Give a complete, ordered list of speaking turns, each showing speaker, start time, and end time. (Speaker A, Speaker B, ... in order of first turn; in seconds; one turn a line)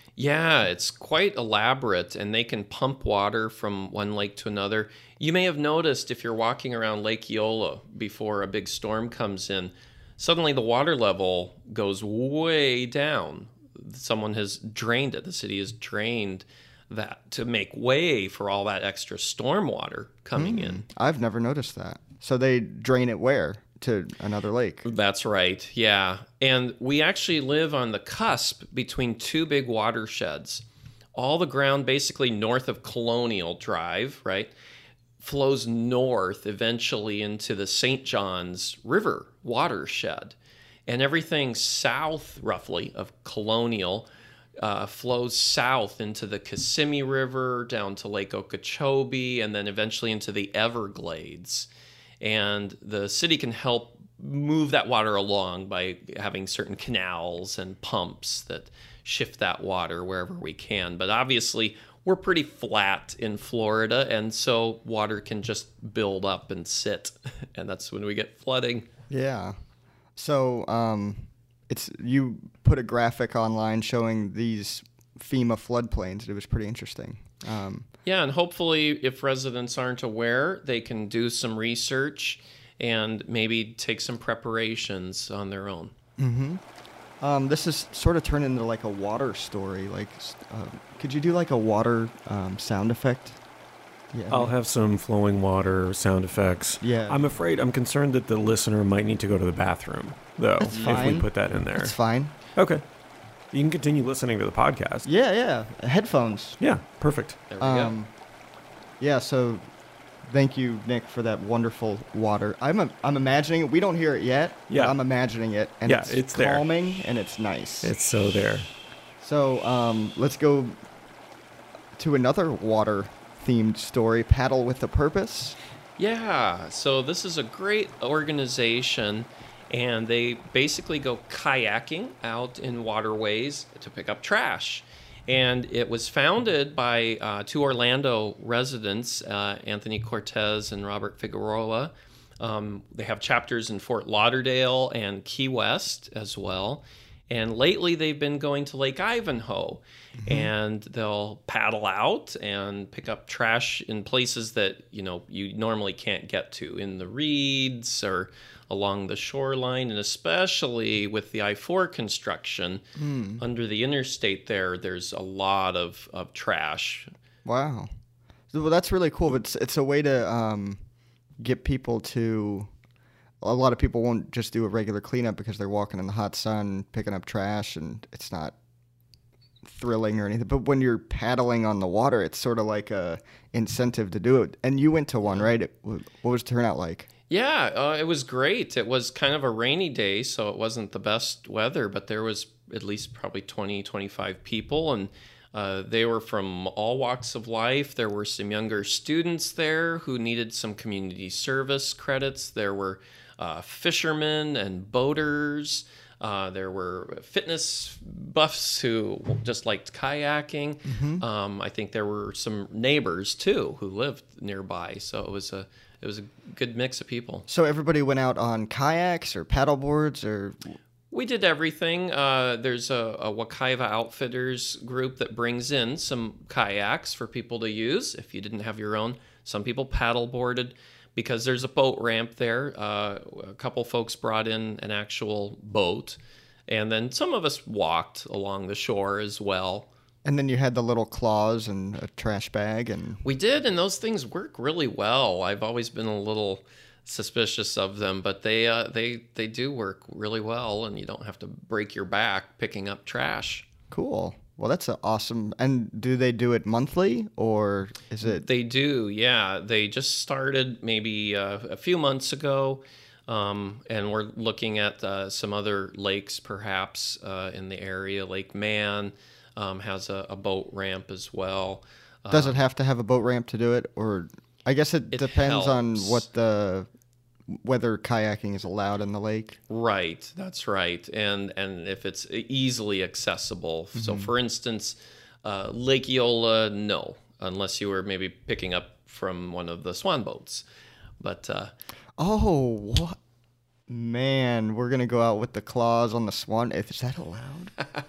Speaker A: 0.2-20.8
Speaker B: 20.4-24.9
Speaker A: 24.8-30.6
Speaker A: 31.1-34.5
Speaker A: 35.2-40.3
Speaker A: 40.9-44.1
Speaker A: 44.6-51.7
Speaker A: 52.2-68.9
Speaker B: 69.1-69.6
Speaker B: 70.2-77.8
Speaker A: 78.0-85.9
Speaker B: 86.2-86.6
Speaker B: 87.2-93.4
Speaker B: 94.1-94.5
Speaker C: 94.3-102.0
Speaker B: 96.8-97.2
Speaker B: 100.6-102.3
Speaker A: 100.7-101.1
Speaker C: 102.5-102.8
Speaker C: 103.5-105.1
Speaker B: 105.0-106.6
Speaker C: 106.6-107.4
Speaker A: 107.5-108.0
Speaker B: 107.6-108.1
Speaker B: 109.0-109.7
Speaker B: 110.2-117.9
Speaker C: 114.7-115.0
Speaker C: 115.8-116.7
Speaker C: 117.8-118.7
Speaker B: 119.2-120.8
Speaker B: 122.0-125.6
Speaker A: 126.0-162.8
Speaker B: 150.2-150.5
Speaker B: 162.9-163.4
Speaker A: 163.4-167.1
Speaker B: 167.4-167.9
Speaker B: 168.5-170.8
Speaker B: 171.4-172.7
Speaker B: 173.4-178.5
Speaker B: 179.6-187.1
Speaker A: 187.3-217.4
Speaker B: 210.8-211.2
Speaker B: 217.5-220.7
Speaker A: 221.1-239.9
Speaker B: 240.2-243.2
Speaker A: 243.2-253.7
Speaker B: 253.9-258.5
Speaker A: 258.2-272.6
Speaker B: 272.3-276.9
Speaker A: 275.1-276.2
Speaker B: 277.5-279.6
Speaker A: 279.7-290.6
Speaker B: 283.9-284.3
Speaker A: 291.2-291.7
Speaker B: 292.2-293.2
Speaker B: 293.9-297.8